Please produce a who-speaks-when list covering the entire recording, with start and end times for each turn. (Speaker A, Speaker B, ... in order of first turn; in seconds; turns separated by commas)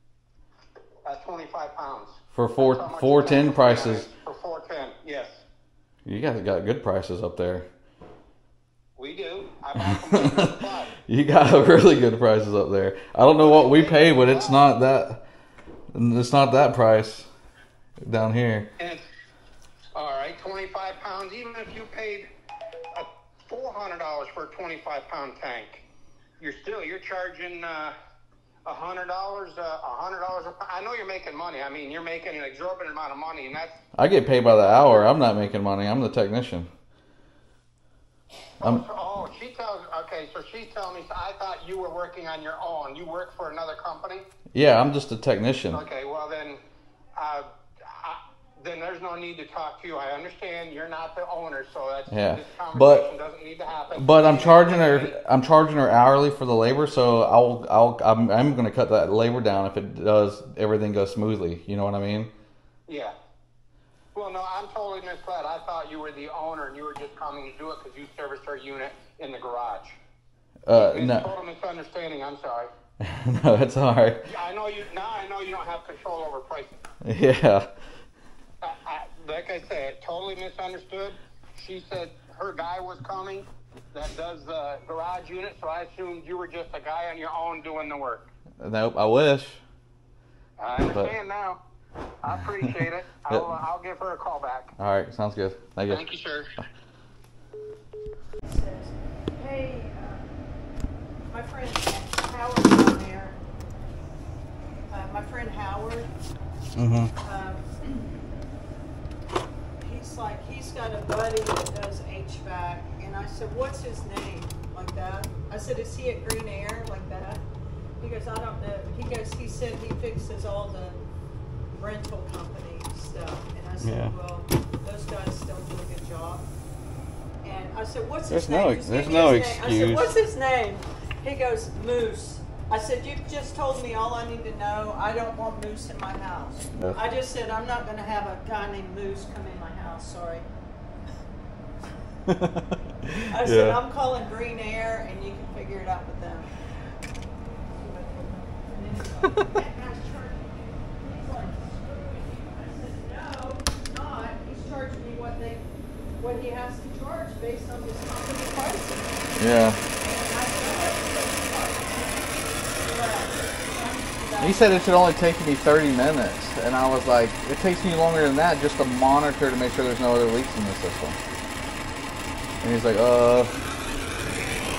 Speaker A: 1.1-5.4, Speaker B: 2.3-4.1, Speaker B: 6.1-7.7, Speaker A: 9.0-10.9, Speaker B: 9.8-15.2, Speaker A: 13.4-14.7, Speaker B: 15.9-17.3, Speaker B: 18.0-18.7, Speaker A: 18.8-19.0, Speaker A: 19.9-22.3, Speaker A: 22.9-25.8, Speaker A: 26.4-27.9, Speaker A: 28.6-33.8, Speaker B: 34.0-36.7, Speaker A: 38.6-44.3, Speaker B: 44.5-45.8, Speaker A: 45.7-46.6, Speaker A: 47.1-55.2, Speaker B: 52.1-53.1, Speaker B: 53.9-62.3, Speaker A: 62.9-63.1, Speaker A: 64.1-70.0, Speaker B: 70.7-71.3, Speaker A: 70.7-72.7, Speaker B: 73.0-74.2, Speaker A: 74.2-76.8, Speaker B: 77.0-77.7, Speaker A: 78.6-88.3, Speaker B: 88.6-89.6, Speaker A: 90.6-91.6, Speaker B: 90.8-91.1, Speaker A: 92.2-94.7, Speaker B: 94.8-96.0, Speaker A: 95.9-96.5, Speaker C: 98.4-100.3, Speaker C: 101.3-103.4, Speaker C: 104.9-106.1, Speaker B: 106.8-107.1, Speaker C: 107.2-108.0, Speaker C: 109.8-117.4, Speaker C: 118.0-121.0, Speaker C: 121.7-126.5, Speaker B: 123.8-124.1, Speaker C: 127.4-140.4, Speaker B: 128.3-130.1, Speaker B: 142.3-143.8, Speaker C: 143.3-146.5, Speaker C: 147.7-155.7, Speaker C: 156.2-159.3, Speaker B: 159.4-159.8, Speaker C: 160.0-162.2, Speaker C: 162.8-164.8, Speaker B: 164.4-171.2, Speaker B: 172.6-173.5